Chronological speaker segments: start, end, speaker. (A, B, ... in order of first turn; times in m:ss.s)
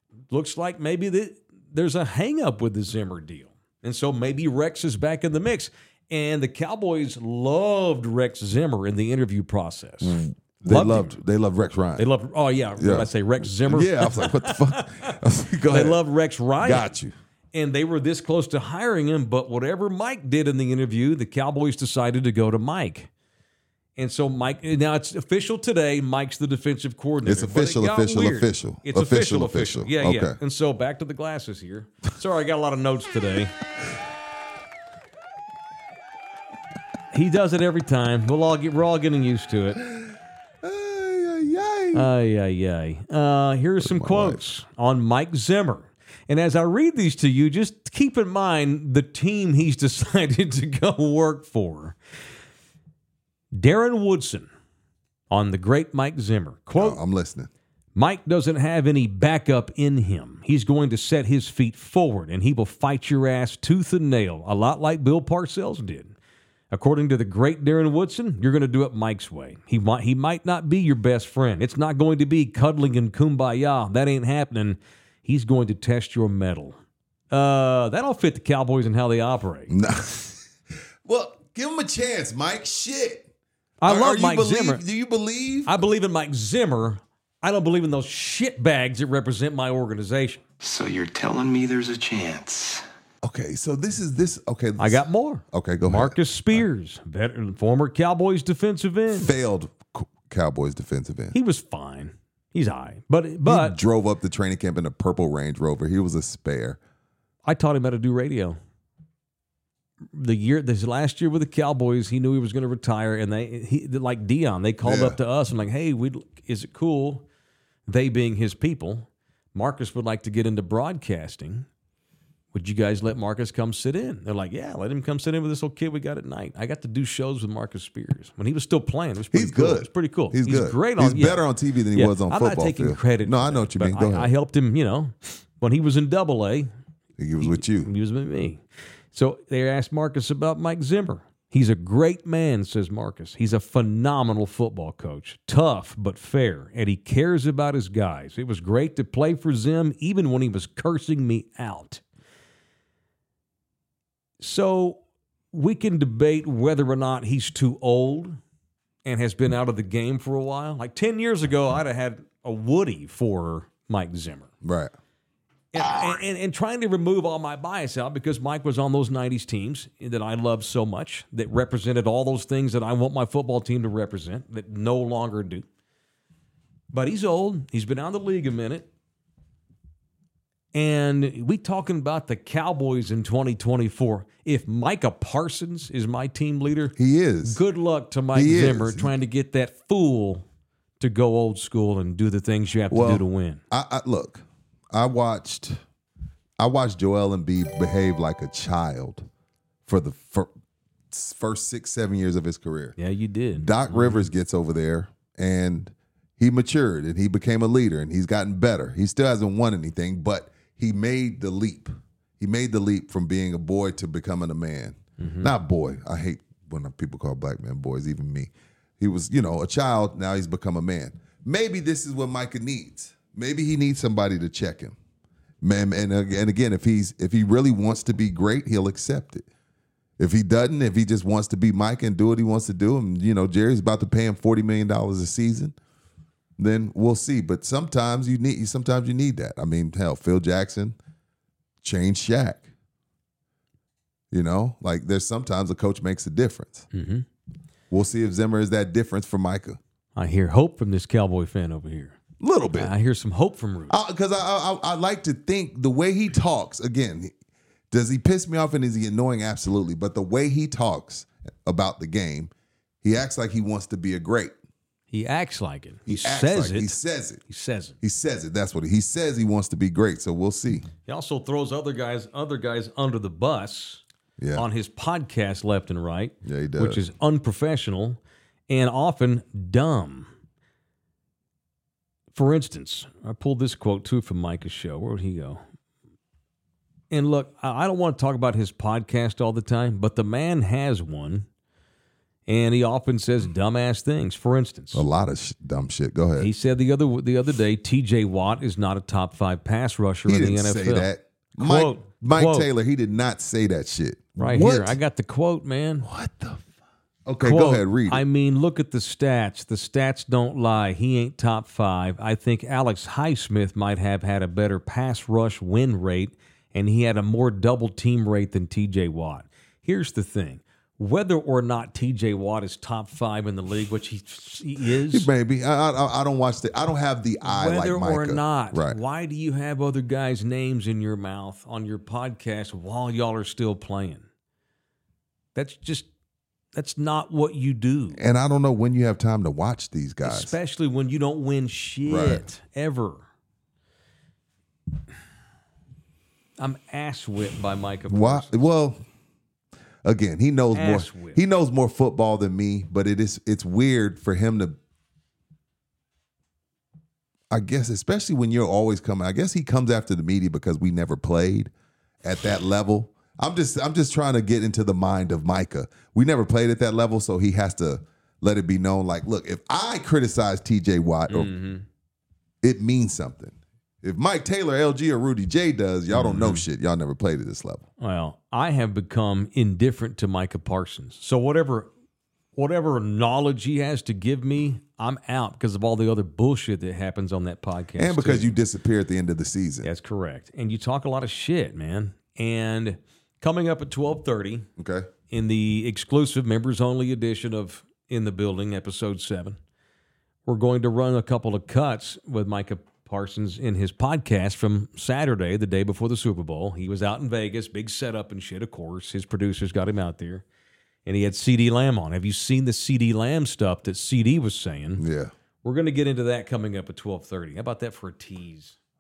0:00.3-0:11.2 A
0:10.0-0:12.0 B
0:12.0-0:15.1 A
0:12.8-0:16.0 B
0:15.7-0:16.9 A
0:16.6-0:17.1 B
0:17.5-0:23.1 A
0:24.0-0:33.5 A
0:27.2-0:30.4 B
0:37.1-0:39.8 A
0:40.6-0:42.1 B
0:41.9-0:52.0 A
0:43.8-0:44.4 B
0:53.5-0:54.5 A
0:55.3-0:57.0 A
0:56.8-0:57.5 B
0:57.9-1:06.1 A
1:06.7-1:16.8 A
1:17.3-1:19.7 A
1:19.7-1:20.4 B
1:21.0-1:23.2 B
1:23.8-1:24.8 A
1:23.8-1:25.8 B
1:25.6-1:30.4 A
1:30.6-1:32.8 C
1:33.2-1:36.6 B
1:34.8-1:39.3 A
1:39.1-1:41.3 B
1:41.3-1:43.8 A
1:43.4-1:46.8 B
1:47.4-1:48.6 A
1:50.1-1:57.2 A
1:54.8-1:55.2 B
1:57.9-2:01.7 A
2:02.5-2:16.7 A
2:09.3-2:14.3 B
2:17.2-2:17.9 B
2:17.4-2:32.0 A
2:34.4-2:35.0 A
2:35.5-2:38.4 A
2:39.0-2:44.5 A
2:44.6-2:44.9 B
2:45.7-2:55.6 A
2:56.9-2:58.9 A
3:00.7-3:10.4 A
3:07.0-3:07.6 B
3:08.3-3:09.1 B
3:11.0-3:13.6 A
3:12.9-3:15.8 B
3:16.6-3:19.3 B
3:19.8-3:20.5 B
3:21.1-3:23.0 B
3:23.0-3:24.3 A
3:23.6-3:45.0 B
3:35.2-3:35.5 A
3:45.6-3:49.4 B
3:50.2-3:55.8 B
3:56.6-4:01.0 B
4:01.8-4:02.7 B
4:04.3-4:06.9 B
4:06.9-4:07.2 A
4:07.9-4:09.8 B
4:10.2-4:12.2 A
4:12.4-4:12.9 B
4:12.7-4:14.0 A
4:13.9-4:17.3 B
4:17.9-4:24.5 B
4:25.1-4:27.0 A
4:26.1-4:27.4 B
4:27.5-4:28.0 A
4:28.0-4:30.9 B
4:31.0-4:34.0 A
4:34.4-4:34.6 B
4:34.5-4:40.3 A
4:36.4-4:37.0 B
4:42.3-4:45.6 A
4:47.1-4:51.4 A
4:52.5-4:55.0 A
4:54.9-4:56.5 B
4:56.4-5:02.7 A
5:00.2-5:05.0 B
5:04.4-5:06.1 A
5:06.0-5:06.6 B
5:07.2-5:08.2 B
5:07.4-5:25.3 A
5:25.1-5:29.0 B
5:27.4-5:34.2 A
5:35.5-5:36.1 A
5:36.7-5:38.2 A
5:38.2-5:40.5 B
5:40.2-5:43.2 A
5:42.1-5:42.4 B
5:46.6-5:48.7 A
5:48.1-5:49.0 B
5:50.0-5:54.8 B
5:50.7-5:51.4 A
5:57.5-6:01.7 B
6:02.2-6:11.5 B
6:11.3-6:11.8 A
6:12.6-6:17.8 B
6:16.1-6:16.6 A
6:18.0-6:21.9 A
6:22.6-6:28.5 A
6:28.0-6:29.9 B
6:29.8-6:34.7 A
6:34.8-6:35.1 B
6:35.3-6:39.6 A
6:40.4-6:50.4 A
6:51.0-6:55.0 A
6:55.0-6:55.3 B
6:55.6-6:58.8 A